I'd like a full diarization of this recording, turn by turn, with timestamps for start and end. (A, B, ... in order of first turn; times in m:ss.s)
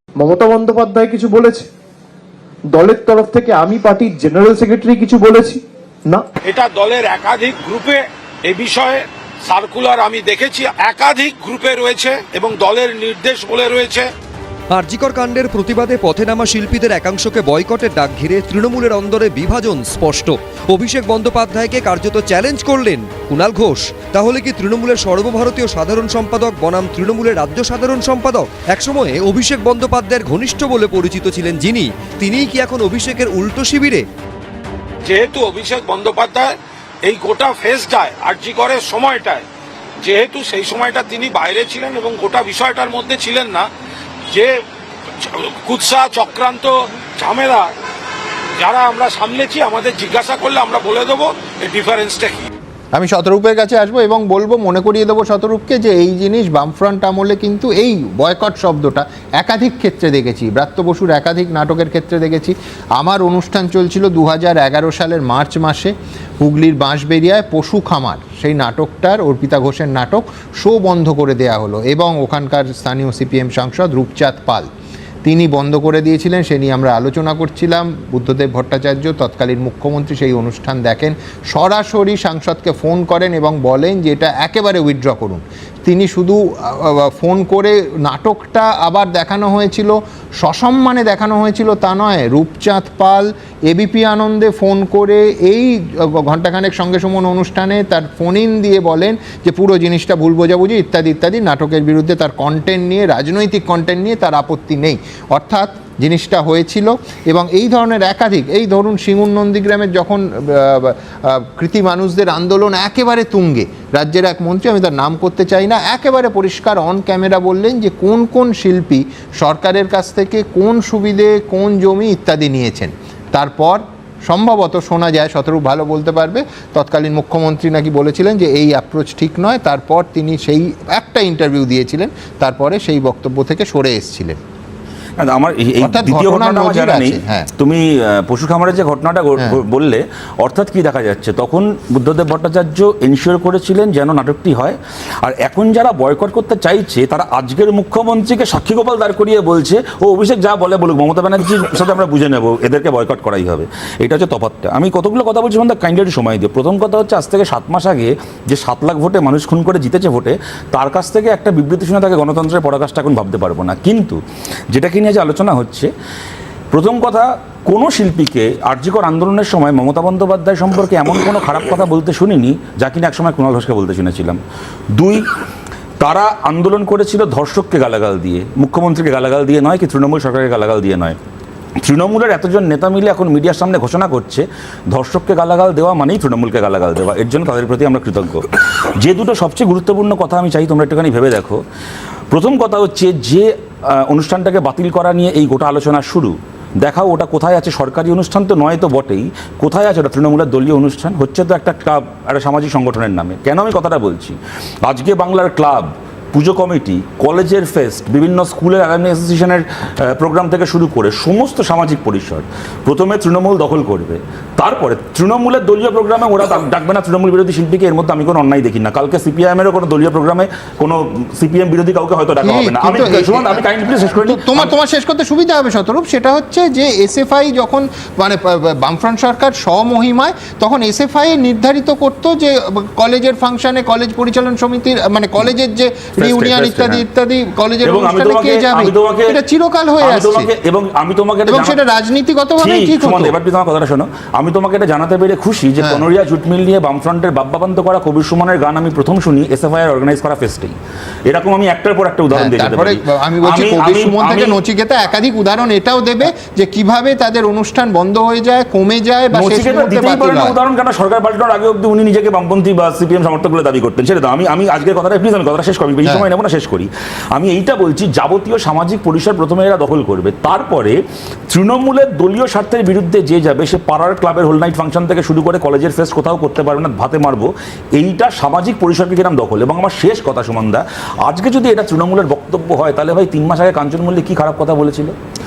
0:00.2-0:01.7 A
0:02.7-0:06.2 A
0:06.4-0:14.1 B
0:14.7-0:34.0 C
0:35.0-0:39.4 B
0:40.0-0:43.7 B
0:44.3-0:44.6 B
0:45.2-0:47.7 B
0:48.6-0:52.5 B
0:53.0-1:14.7 D
1:15.2-2:14.4 D
2:15.2-2:44.2 E
2:15.8-2:17.5 D
2:44.7-2:45.9 E
2:46.7-2:54.4 E
2:54.9-2:55.2 E
2:56.0-3:01.2 E
3:01.8-3:11.6 E
3:12.3-3:44.7 E
3:42.4-3:43.6 D
3:44.2-4:00.5 D
3:56.2-3:57.0 E
3:57.8-3:59.4 E
4:00.0-4:01.8 E
4:01.5-4:03.4 D
4:02.6-4:10.8 E
4:05.8-4:06.0 D
4:11.3-4:14.6 E
4:12.3-4:20.6 D
4:19.3-4:31.0 E
4:31.5-4:45.1 E